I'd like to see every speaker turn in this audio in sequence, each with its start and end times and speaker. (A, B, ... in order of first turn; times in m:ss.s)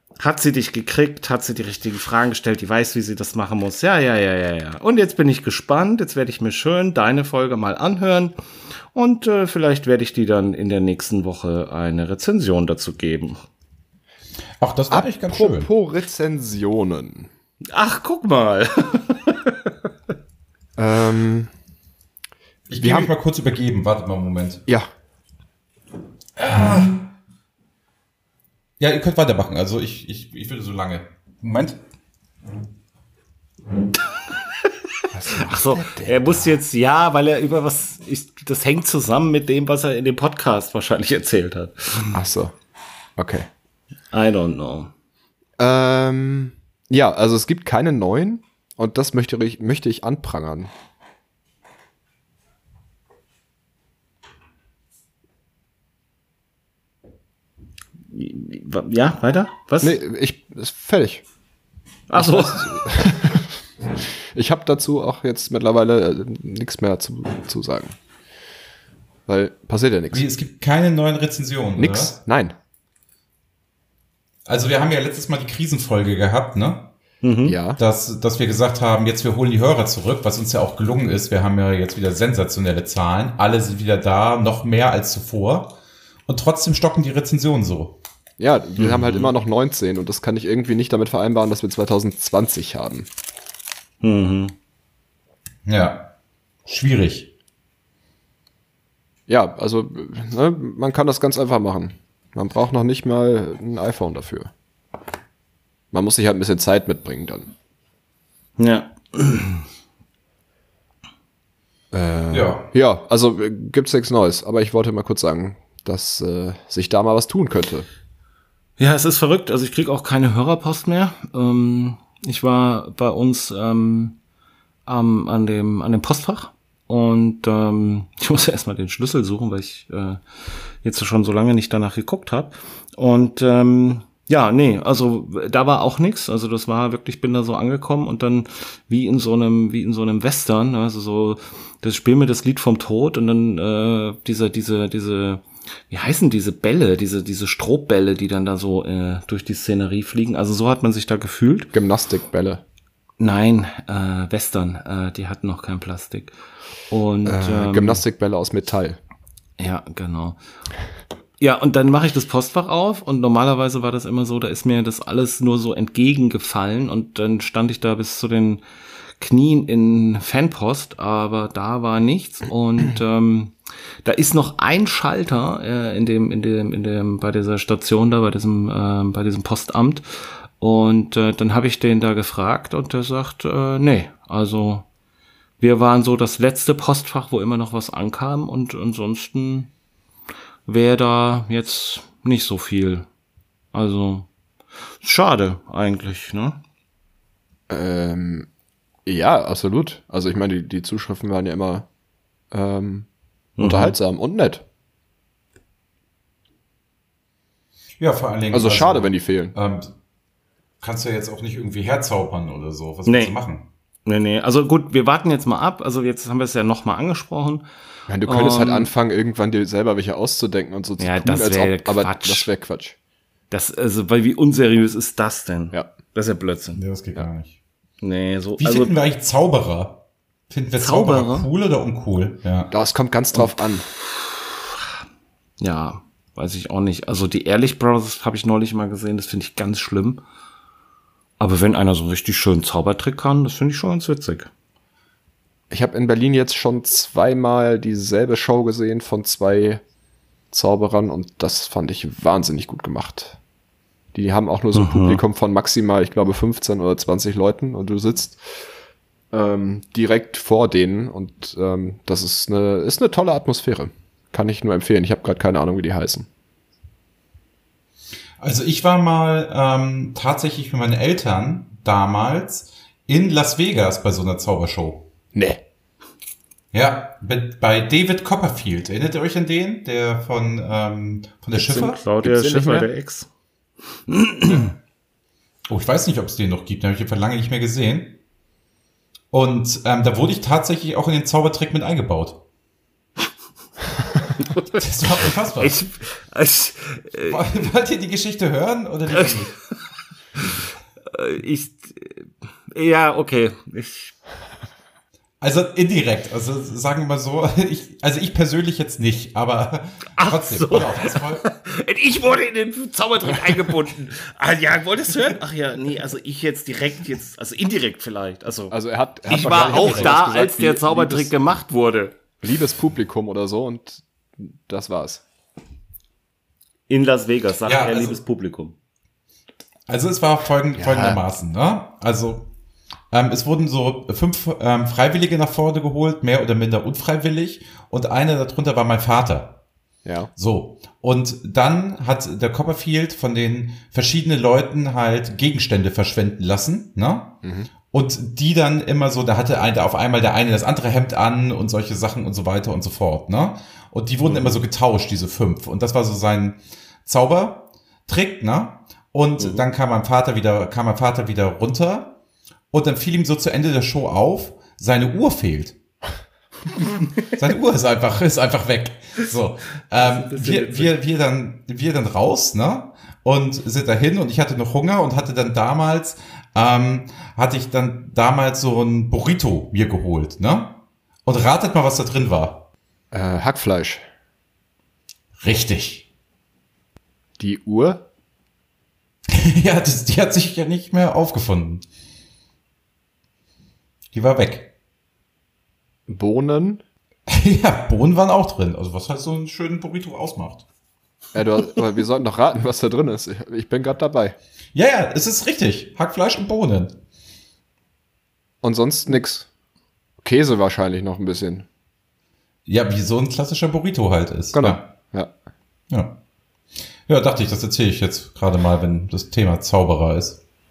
0:00.2-0:08.3 A
0:08.9-0:13.4 A
0:14.6-0:15.7 B
0:14.9-0:17.3 C
0:17.7-0:19.5 A
0:20.8-0:21.5 C
0:22.7-0:24.6 B
0:22.8-0:23.1 C
0:26.4-0:27.0 B
0:28.8-0:31.8 B
0:35.1-0:36.6 C
0:35.4-0:42.2 A
0:42.1-0:42.5 C
0:43.2-0:43.5 C
0:44.1-0:44.9 A
0:45.6-0:50.7 C
0:58.1-1:00.0 A
0:59.8-1:01.2 C
1:02.1-1:02.9 A
1:02.1-1:08.0 C
1:09.3-1:10.3 C
1:10.1-1:12.2 B
1:11.8-1:12.6 C
1:14.5-1:16.9 B
1:17.2-1:17.6 A
1:17.4-1:17.8 C
1:17.8-1:25.8 B
1:26.3-1:28.0 B
1:28.4-1:33.1 C
1:28.8-1:29.3 A
1:34.0-1:34.5 A
1:35.7-1:36.1 B
1:36.7-1:37.3 B
1:39.3-1:44.5 C
1:45.9-1:47.5 C
1:48.6-1:49.6 A
1:51.9-1:57.9 C
1:52.3-1:52.7 B
1:58.8-2:04.2 A
2:04.9-2:10.2 A
2:10.8-2:31.7 A
2:31.7-2:32.6 C
2:33.2-2:36.3 A
2:36.9-2:38.0 A
2:37.2-2:39.0 C
2:39.6-2:40.4 A
2:41.4-2:48.6 A
2:49.2-3:00.0 A
3:00.6-3:04.9 A
3:05.6-3:09.7 A
3:10.7-3:13.1 A
3:13.7-3:14.3 A
3:15.0-3:16.6 A
3:17.7-3:18.5 C
3:19.1-3:21.9 C
3:22.5-3:23.1 C
3:23.6-3:24.0 A
3:23.6-3:24.6 C
3:28.0-3:29.9 B
3:28.5-3:29.6 C
3:30.8-3:33.7 B
3:33.1-3:33.4 A
3:34.1-3:37.6 A
3:38.1-3:43.0 C
3:38.2-3:38.9 A
3:41.0-3:42.5 A
3:43.5-3:46.8 A
3:46.8-3:47.6 B
3:48.0-3:49.0 A
3:48.6-3:52.7 B
3:50.8-3:51.5 A
3:52.7-3:53.9 C
3:53.4-3:54.9 A
3:55.6-4:00.2 A
4:01.4-4:04.5 A
4:05.7-4:09.8 C
4:10.5-4:13.4 C
4:14.1-4:18.4 C
4:14.7-4:15.2 A
4:19.3-4:26.3 C
4:28.4-4:35.1 B
4:35.3-4:35.6 C
4:36.7-4:42.0 B
4:41.6-4:43.3 A
4:42.2-4:42.9 C
4:44.1-4:44.7 A
4:45.7-4:48.2 B
4:49.3-4:52.4 B
4:54.8-4:55.8 B
4:55.6-4:57.4 A
4:57.3-4:59.5 B
5:01.1-5:04.1 A
5:05.4-5:11.4 B
5:10.2-5:22.2 A
5:18.7-5:21.3 C
5:19.3-5:20.3 B
5:22.4-5:25.2 C
5:26.9-5:28.8 A
5:27.7-5:28.2 B
5:29.9-5:32.5 B
5:30.8-5:31.2 C
5:33.1-5:39.6 B
5:40.0-5:40.3 C
5:40.4-5:47.4 B
5:47.4-5:47.7 C
5:47.9-6:02.2 B
6:02.7-6:05.8 B
6:07.2-6:22.7 B
6:10.0-6:11.0 A
6:23.1-6:24.0 C
6:25.4-6:26.0 B
6:27.4-6:28.0 C
6:29.3-6:31.8 B
6:34.1-6:34.7 B
6:36.1-6:36.8 C
6:37.3-6:40.6 B
6:41.3-6:44.4 C
6:44.8-6:47.0 B
6:48.6-6:49.5 C
6:50.2-6:51.7 C
6:52.7-6:54.8 B
6:54.5-6:55.3 C
6:55.9-6:56.2 B
6:57.1-7:00.4 B